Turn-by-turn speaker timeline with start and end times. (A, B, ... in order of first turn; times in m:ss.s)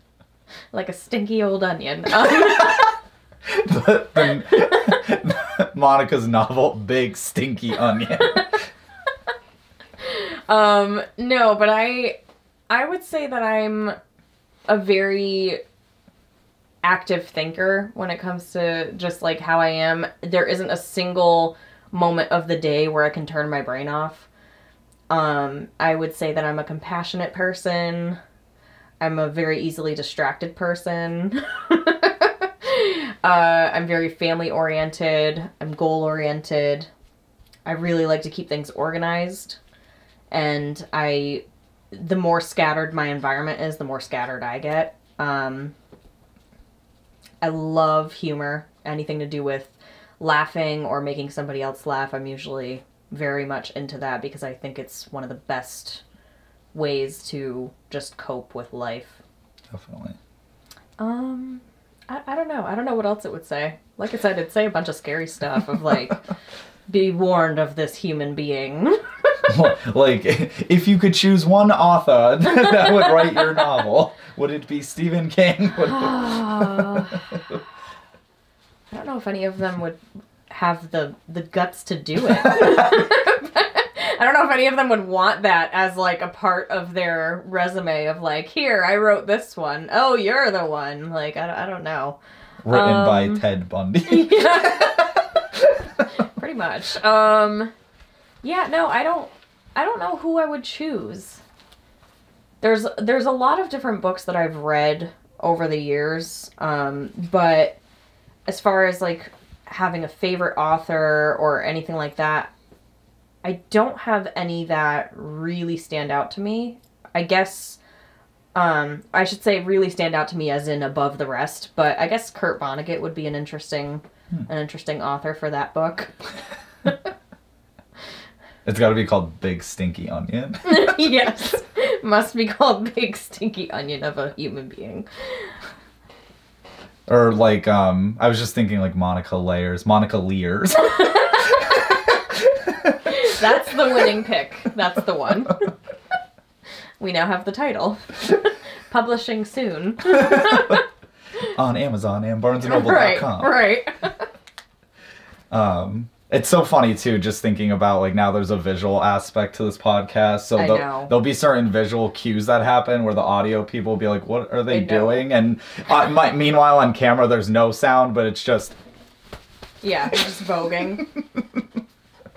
0:00.7-0:02.9 A
0:03.4-0:08.6 B
0:10.0-0:12.2 A
0:12.7-0:14.0 A
0:14.7-0:15.6 A
0:16.8-0:24.3 A
0:25.1-0:28.2 A
0:29.0-0:36.9 A
0:37.6-0:39.6 A
0:40.3-0:45.7 A
0:47.4-0:56.0 A
0:56.7-0:59.2 A
0:59.7-1:00.2 B
1:01.0-1:06.3 A
1:06.9-1:09.4 A
1:09.5-1:17.6 B
1:12.5-1:13.8 A
1:15.8-1:17.4 A
1:18.9-1:32.2 A
1:22.4-1:22.8 B
1:32.6-1:36.1 B
1:32.7-1:33.4 A
1:34.0-1:35.1 A
1:36.2-1:37.7 A
1:38.4-1:41.4 A
1:42.6-1:47.8 A
1:48.5-1:52.5 A
1:53.4-1:57.8 A
1:58.5-2:06.1 A
2:08.6-2:11.1 B
2:10.6-2:15.5 A
2:17.1-2:23.4 B
2:20.8-2:21.7 A
2:23.0-2:25.7 A
2:27.0-2:30.8 A
2:30.1-2:30.8 B
2:31.5-2:33.6 B
2:32.6-2:34.2 A
2:35.5-2:48.8 B
2:40.6-2:41.1 A
2:44.7-2:45.2 A
2:49.8-2:51.0 A